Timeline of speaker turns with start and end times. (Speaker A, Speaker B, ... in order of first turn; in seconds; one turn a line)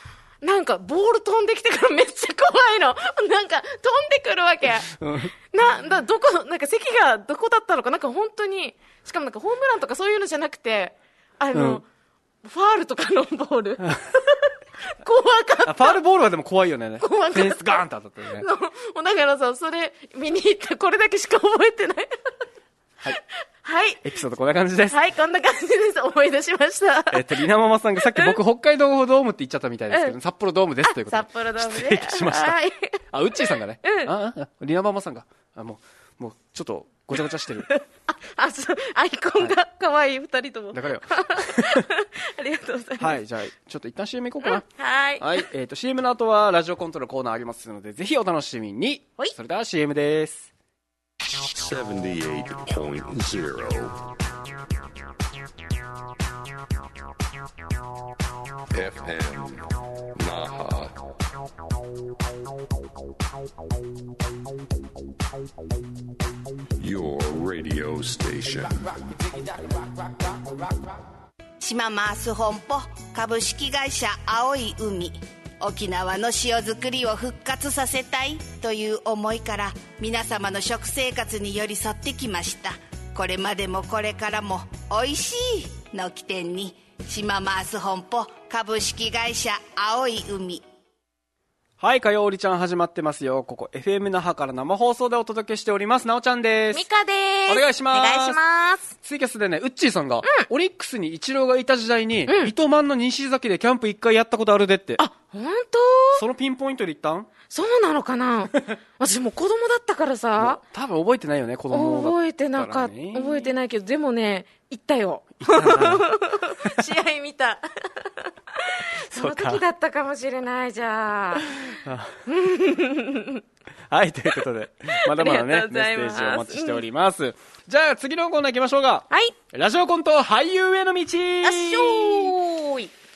Speaker A: 0.4-4.9
Speaker B: 4.8-5.3
Speaker A: 5.5-11.8
Speaker B: 11.5-11.8
Speaker A: 12.4-16.0
Speaker B: 15.6-18.4
Speaker A: 17.0-17.8
Speaker A: 18.3-22.1
Speaker A: 23.1-24.0
Speaker B: 24.0-24.9
Speaker A: 24.9-27.4
Speaker B: 27.1-32.6
Speaker A: 30.8-33.0
Speaker B: 33.1-37.7
Speaker A: 33.8-34.1
Speaker A: 37.7-43.2
Speaker B: 40.7-41.9
Speaker B: 43.0-44.6
Speaker A: 44.4-45.4
Speaker B: 45.2-50.5
Speaker C: 51.3-54.0
Speaker C: 58.7-61.0
Speaker C: 66.8-70.5
Speaker D: 71.6-90.6
Speaker B: 91.8-96.8
Speaker A: 96.7-98.9
Speaker B: 97.5-98.4
Speaker B: 99.0-105.0
Speaker A: 102.3-102.5
Speaker A: 105.0-106.2
Speaker B: 106.1-107.3
Speaker A: 107.5-110.6
Speaker B: 110.4-113.5
Speaker A: 111.7-121.5
Speaker B: 115.4-116.1
Speaker B: 119.1-119.6
Speaker B: 121.7-122.2
Speaker A: 122.2-123.4
Speaker B: 123.9-132.3
Speaker A: 125.0-126.8
Speaker A: 131.4-132.9